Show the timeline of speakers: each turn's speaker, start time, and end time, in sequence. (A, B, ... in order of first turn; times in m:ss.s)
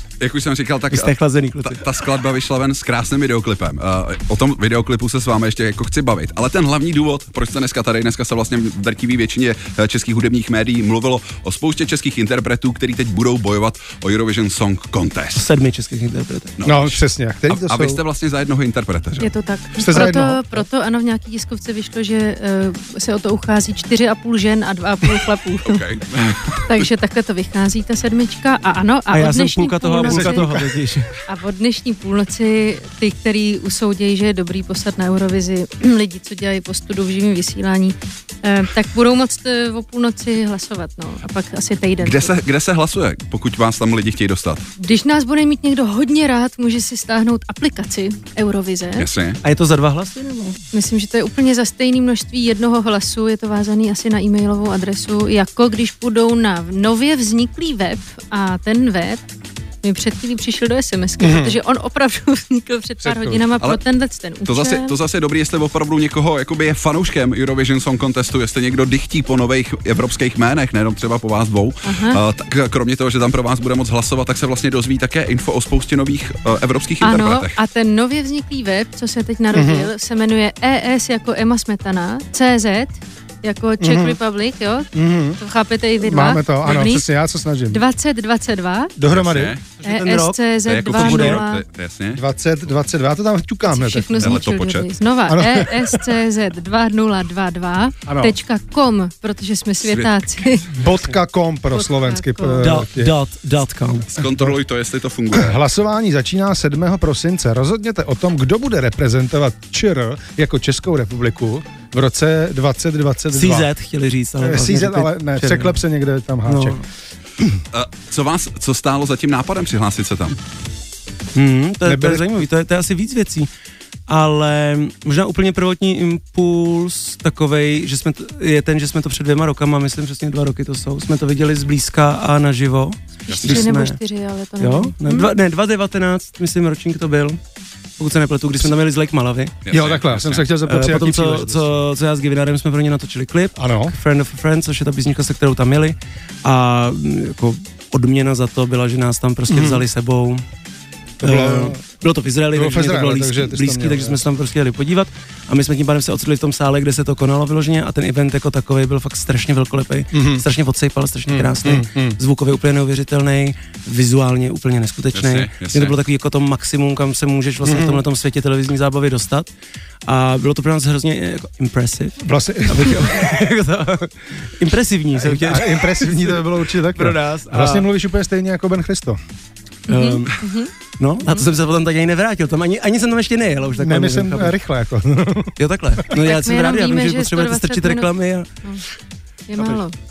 0:00.2-0:01.1 A
0:00.9-0:01.8 B
0:01.6-0:15.4 A
0:15.4-0:16.6 B
0:16.6-0:19.3 A
0:16.6-0:18.0 C
0:19.2-0:25.8 D
0:19.8-0:20.6 C
0:25.6-0:26.9 A
0:26.6-0:30.6 D
0:29.1-0:31.1 B
0:30.0-0:30.7 C
0:31.3-0:42.4 D
0:42.0-0:44.7 A
0:44.8-0:49.1 D
0:49.0-0:49.4 A
0:49.4-0:50.6 B
0:50.7-0:59.2 D
0:59.8-1:05.0 D
1:01.2-1:01.6 C
1:03.0-1:03.5 C
1:04.5-1:17.6 A
1:11.8-1:12.2 D
1:17.0-1:27.1 D
1:19.5-1:19.9 C
1:23.8-1:24.2 C
1:25.0-1:25.4 C
1:26.0-1:27.8 C
1:26.7-1:26.9 A
1:27.7-1:28.9 D
1:29.0-1:29.6 C
1:29.1-1:29.6 A
1:29.8-1:30.4 B
1:29.8-1:31.6 D
1:30.6-1:32.2 A
1:31.0-1:31.4 B
1:32.2-1:34.4 C
1:33.7-1:40.7 D
1:34.2-1:34.9 A
1:35.3-1:36.1 C
1:38.1-1:38.4 C
1:39.9-1:40.6 A
1:40.7-1:43.1 C
1:41.7-1:42.6 D
1:42.6-1:44.2 B
1:44.1-1:45.6 A
1:45.3-1:53.7 C
1:53.4-1:55.8 B
1:54.4-1:56.8 C
1:56.5-1:56.8 B
1:57.7-2:00.4 A
2:01.4-2:03.5 B
2:01.8-2:02.3 C
2:04.1-2:14.0 B
2:13.3-2:15.3 D
2:13.3-2:13.7 A
2:14.6-2:17.4 B
2:18.0-2:19.5 B
2:19.7-2:20.5 A
2:19.7-2:21.8 C
2:20.6-2:30.4 B
2:23.6-2:23.9 C
2:29.5-2:29.8 C
2:31.2-2:31.8 C
2:31.2-2:49.5 B
2:32.5-2:34.2 C
2:40.1-2:40.4 C
2:41.3-2:42.2 C
2:45.2-2:46.0 A
2:47.6-2:48.0 C
2:50.1-2:57.9 B
2:52.2-2:53.4 C
2:55.2-2:59.2 C
2:59.9-3:00.3 B
2:59.9-3:00.7 D
3:01.0-3:04.6 B
3:01.2-3:01.5 D
3:03.8-3:06.1 C
3:05.6-3:08.5 B
3:06.2-3:08.1 D
3:09.5-3:09.9 D